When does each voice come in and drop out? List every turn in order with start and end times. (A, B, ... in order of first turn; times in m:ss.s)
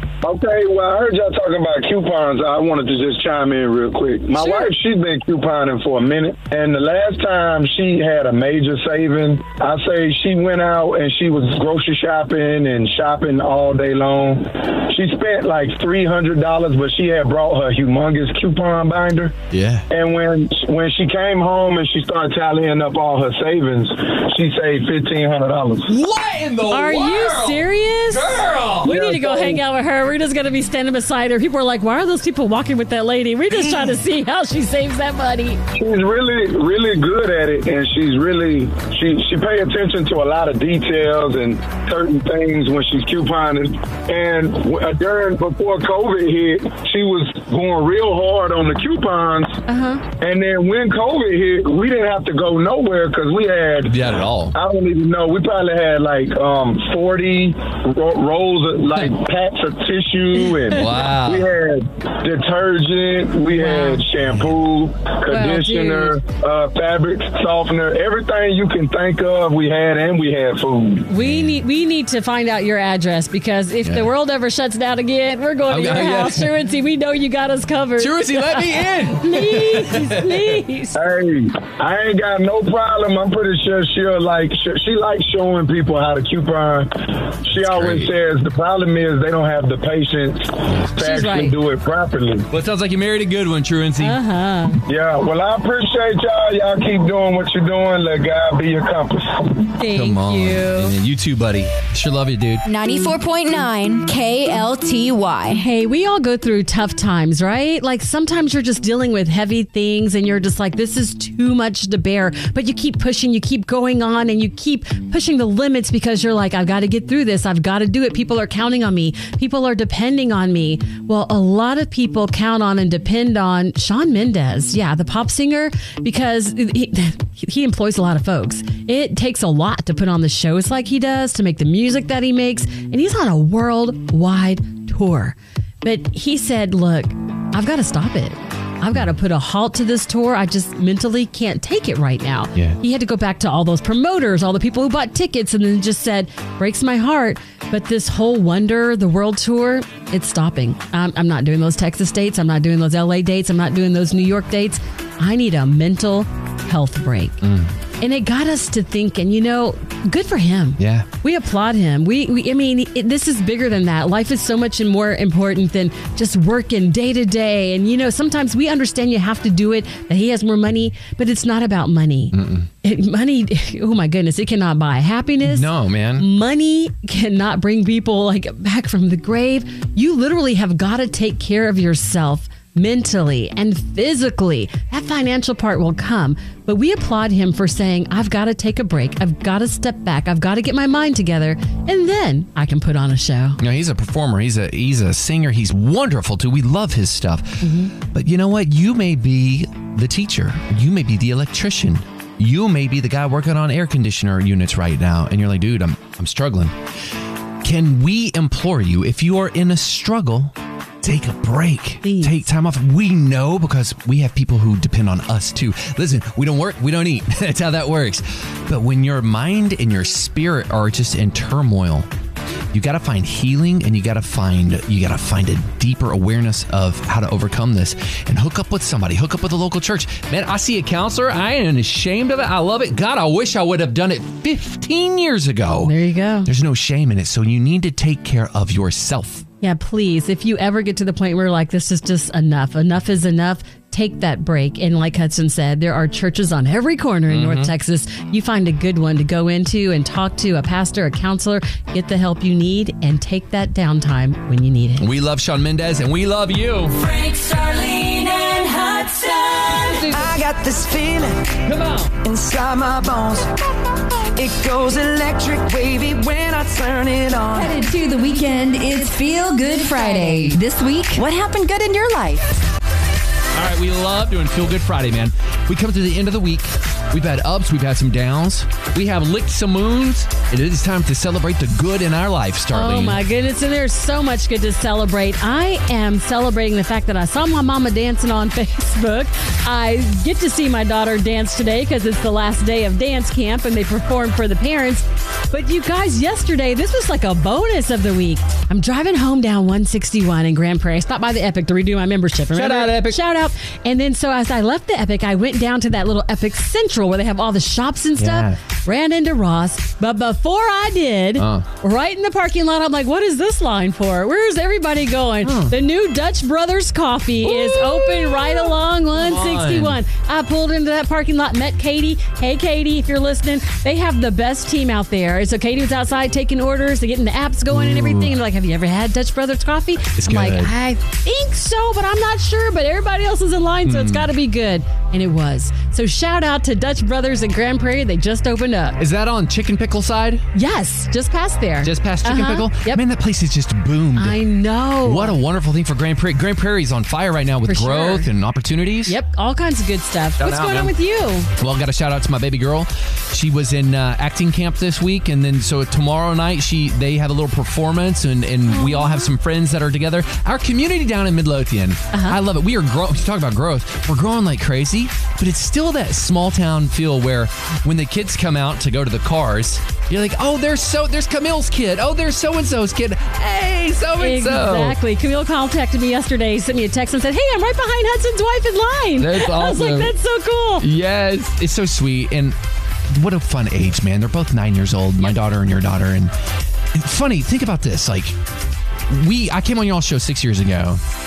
0:00.2-0:19.4 A
0:04.3-0:04.7 B
0:19.5-0:19.9 C
0:19.9-0:26.0 A
0:25.9-0:28.9 C
0:26.7-0:28.3 B
0:28.8-0:35.6 B
0:28.8-0:29.6 A
0:35.7-0:49.6 A
0:49.7-0:50.0 B
0:50.2-0:54.0 A
0:53.9-0:54.6 C
0:54.5-1:11.1 A
1:00.7-1:01.5 C
1:03.5-1:04.0 B
1:05.3-1:06.2 B
1:11.1-1:21.0 B
1:11.2-1:11.6 C
1:15.7-1:16.5 C
1:18.0-1:20.4 C
1:20.9-1:32.5 A
1:27.6-1:28.1 C
1:30.7-1:31.0 C
1:31.0-1:31.6 B
1:32.5-1:34.2 C
1:34.0-1:34.8 B
1:34.9-1:39.8 A
1:39.8-1:41.0 B
1:39.9-1:42.7 C
1:42.7-1:45.6 D
1:42.8-1:43.1 E
1:44.1-1:45.6 E
1:45.5-2:37.4 B
2:37.4-2:37.7 C
2:38.0-3:13.6 B
2:40.8-2:41.1 C
2:52.3-2:52.7 C
2:55.4-2:56.3 C
3:13.6-3:26.8 C
3:17.6-3:18.0 B
3:27.6-3:42.1 C
3:32.0-3:32.4 B
3:42.7-3:55.9 C
3:55.8-3:56.5 B
3:56.5-3:59.5 C
3:59.6-4:15.1 B
4:07.3-4:07.7 C
4:15.0-4:17.2 C
4:18.5-4:19.6 E
4:19.8-4:20.4 C
4:20.0-4:23.5 F
4:21.6-4:22.1 C
4:24.4-4:27.8 F
4:27.6-4:28.2 E
4:27.9-4:32.4 D
4:33.5-4:43.2 C
4:42.7-5:39.0 B
5:02.5-5:03.2 C
5:08.2-5:08.6 C
5:11.4-5:11.7 C
5:15.4-5:15.7 C
5:17.4-5:20.0 C
5:27.7-5:28.3 C
5:30.2-5:30.7 C
5:33.9-5:34.3 C
5:39.0-5:40.4 C
5:40.5-5:43.0 B
5:41.8-5:44.4 C
5:44.2-5:45.4 B
5:45.0-5:49.2 C
5:47.7-5:48.3 B
5:49.1-5:51.5 B
5:50.4-5:51.0 C
5:51.6-6:15.0 C
5:58.7-5:59.3 B
6:02.1-6:02.4 B
6:14.2-6:20.9 B
6:19.2-6:20.1 C
6:20.8-6:22.6 C
6:23.1-6:26.3 C
6:26.9-6:28.4 C
6:29.1-6:31.0 C